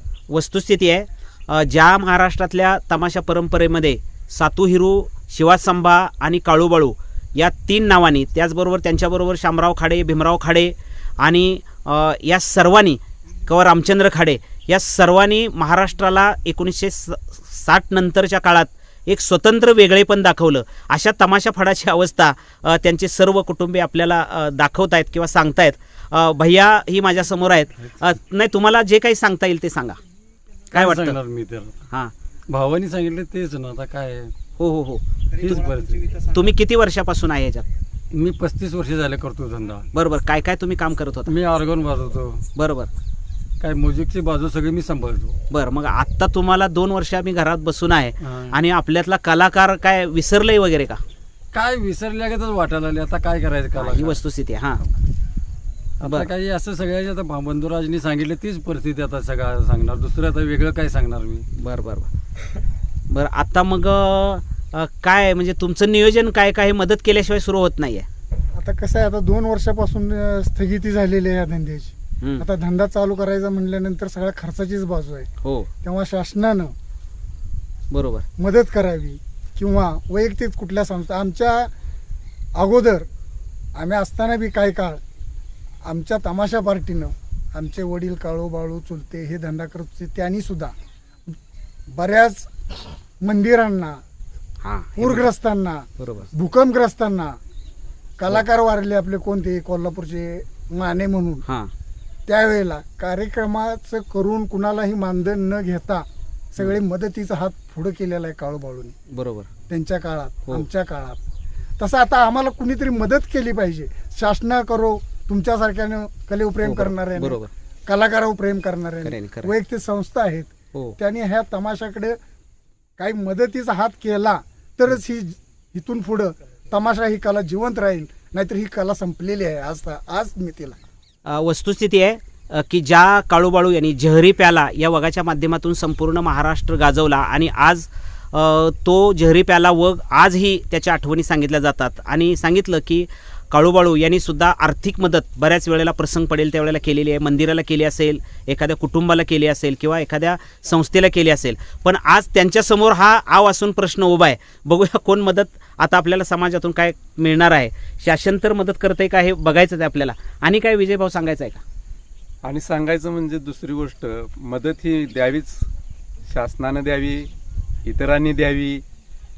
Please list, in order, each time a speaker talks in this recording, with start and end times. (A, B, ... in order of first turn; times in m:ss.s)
0:00.3-0:30.0 A
0:30.7-0:31.2 A
0:30.7-0:31.7 B
0:32.5-0:34.3 B
0:34.6-0:37.7 A
0:35.4-0:36.1 B
0:38.1-0:39.8 B
0:39.9-0:41.3 A
0:41.3-0:42.5 B
0:42.6-0:42.9 A
0:43.6-0:45.4 B
0:45.5-0:51.0 A
0:48.2-0:48.6 B
0:51.5-0:54.2 B
0:53.8-0:54.9 A
0:56.0-1:01.5 B
0:56.0-0:56.3 A
1:01.6-1:02.1 A
1:03.1-1:08.1 A
1:08.6-1:15.3 C
1:12.2-1:12.5 A
1:15.4-1:15.7 A
1:15.8-1:16.7 C
1:17.9-1:18.2 A
1:18.4-1:21.7 C
1:22.6-1:23.1 C
1:23.8-1:25.0 C
1:25.8-1:30.7 C
1:31.9-1:32.5 C
1:33.2-1:34.0 C
1:34.6-1:35.3 A
1:35.0-1:37.4 C
1:36.0-1:36.3 A
1:38.2-1:41.4 C
1:41.5-1:41.7 A
1:42.3-1:49.0 C
1:49.1-1:49.5 A
1:49.7-1:51.2 C
1:51.8-2:02.2 C
1:56.6-1:57.5 A
1:59.0-1:59.5 A
2:03.0-2:10.8 C
2:11.3-2:41.6 A
2:42.4-2:45.6 D
2:46.3-2:47.3 D
2:47.8-2:48.8 D